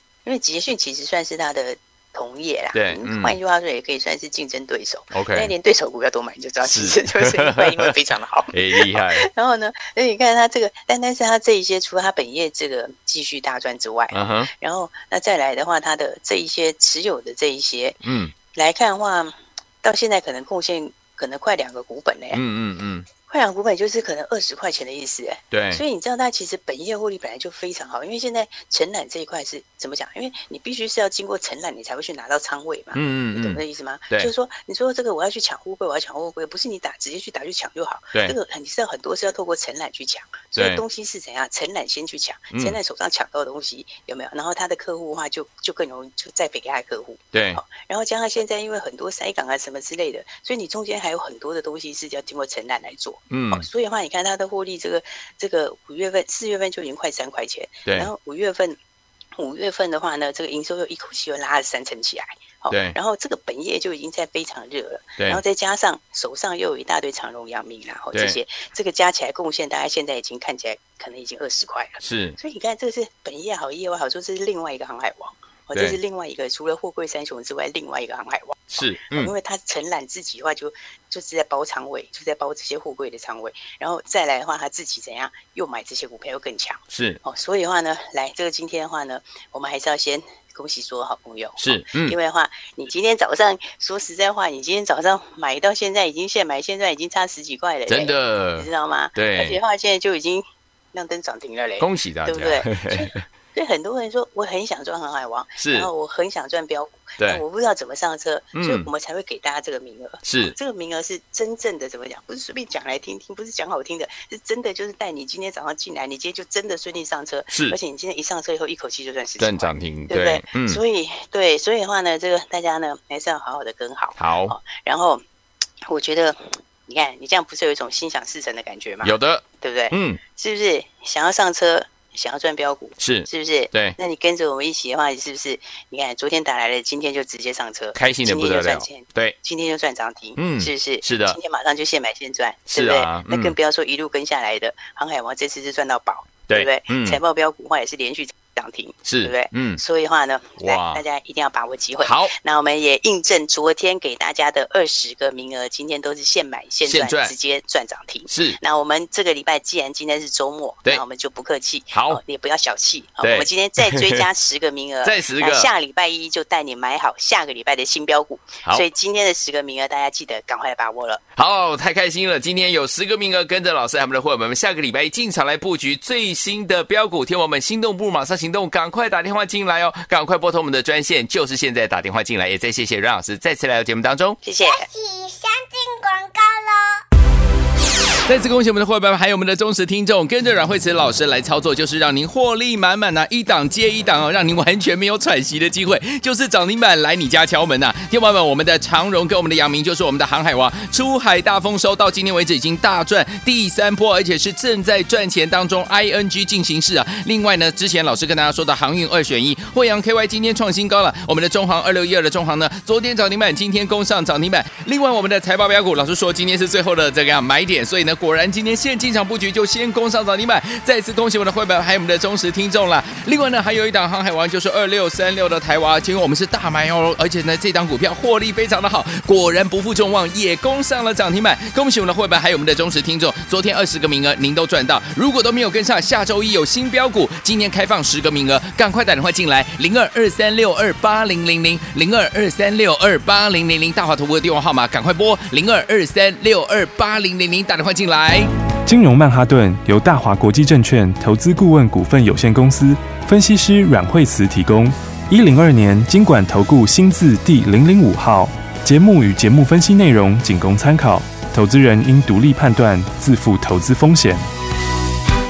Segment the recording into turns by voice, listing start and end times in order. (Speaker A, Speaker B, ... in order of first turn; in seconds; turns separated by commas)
Speaker A: 0.2-18.0, Speaker B: 2.7-3.4, Speaker B: 5.1-5.5, Speaker B: 6.6-7.9, Speaker B: 8.5-9.2, Speaker B: 14.1-14.5, Speaker B: 18.0-18.3, Speaker A: 18.5-22.4, Speaker B: 22.3-23.1, Speaker A: 23.2-58.8, Speaker B: 25.5-25.8, Speaker B: 32.9-34.3, Speaker B: 40.5-40.8, Speaker B: 47.3-47.6, Speaker B: 53.3-53.6, Speaker A: 59.4-125.2, Speaker B: 62.7-63.0, Speaker B: 72.0-72.4, Speaker B: 78.7-79.3, Speaker B: 86.9-87.2, Speaker B: 91.6-92.2, Speaker B: 97.9-99.6, Speaker B: 101.8-103.2, Speaker B: 105.6-105.9, Speaker B: 108.5-108.9, Speaker B: 110.2-110.5, Speaker B: 117.5-117.8, Speaker B: 119.4-120.8, Speaker B: 124.2-124.5, Speaker A: 125.9-171.2, Speaker B: 129.0-130.2, Speaker B: 133.0-134.0, Speaker B: 137.9-139.3, Speaker B: 140.4-141.4, Speaker B: 142.7-143.5, Speaker B: 146.5-147.2, Speaker B: 149.1-149.8, Speaker B: 150.6-151.0, Speaker B: 152.0-152.3, Speaker B: 156.8-157.3, Speaker B: 158.3-158.6, Speaker B: 161.9-162.2, Speaker B: 163.2-164.2, Speaker B: 165.0-165.7, Speaker B: 171.4-184.4, Speaker A: 184.4-184.9, Speaker C: 184.6-187.0, Speaker B: 188.2-248.5, Speaker D: 248.9-264.4